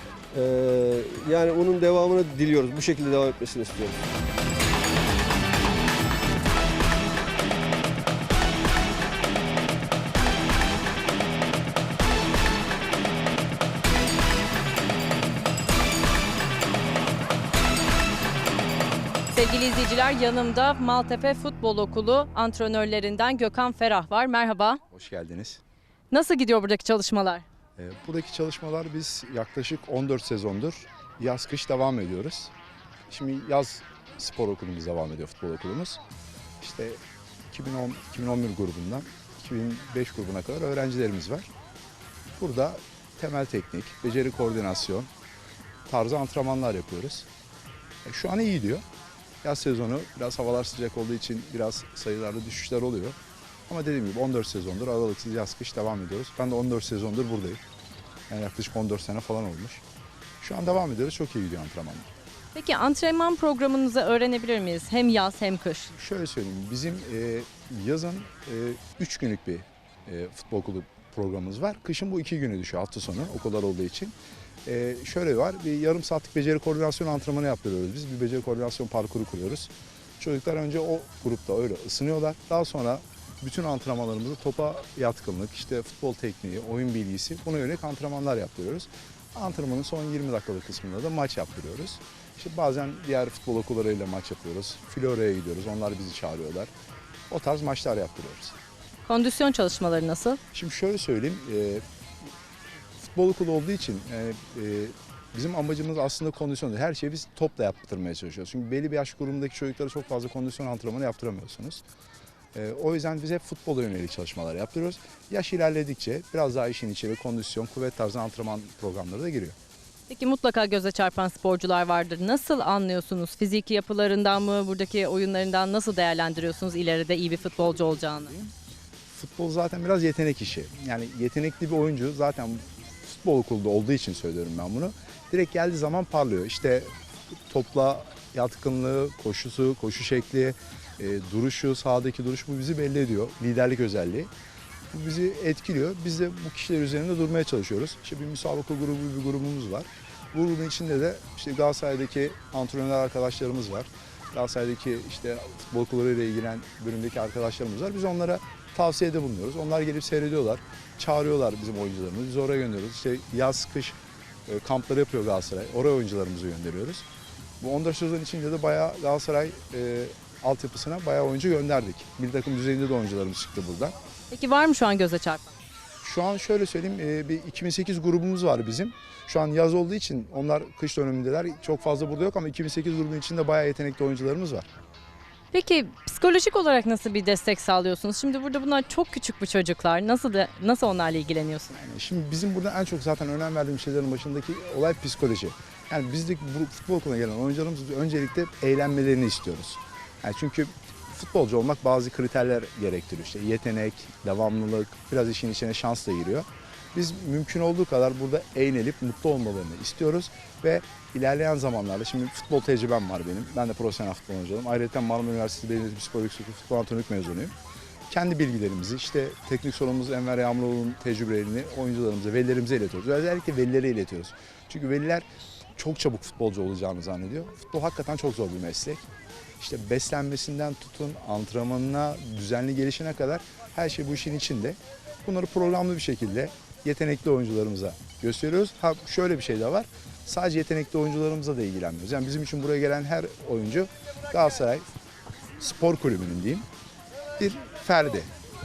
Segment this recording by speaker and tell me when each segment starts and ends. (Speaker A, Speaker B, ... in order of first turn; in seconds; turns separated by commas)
Speaker A: 0.3-4.0, Speaker B: 19.3-24.8, Speaker C: 24.9-25.6, Speaker B: 26.1-27.4, Speaker C: 27.8-32.5, Speaker C: 33.1-36.0, Speaker C: 36.6-41.5, Speaker C: 42.4-45.1, Speaker C: 45.9-47.3, Speaker C: 48.0-48.8, Speaker C: 49.4-53.1, Speaker C: 53.7-57.6, Speaker C: 58.3-59.8, Speaker C: 60.4-62.1, Speaker B: 62.5-65.9, Speaker C: 65.9-74.1, Speaker C: 74.6-96.7, Speaker C: 97.3-98.5, Speaker B: 99.1-100.4, Speaker C: 100.5-101.8, Speaker C: 103.0-111.8, Speaker C: 112.5-119.5, Speaker B: 120.1-128.3, Speaker C: 129.1-144.3, Speaker C: 144.9-167.0, Speaker C: 167.6-173.9, Speaker B: 174.3-175.5, Speaker C: 176.0-184.7, Speaker B: 185.5-191.8, Speaker C: 191.7-217.5, Speaker C: 218.1-225.2, Speaker C: 225.8-229.0, Speaker C: 229.6-244.8, Speaker C: 245.6-246.7, Speaker C: 247.4-248.3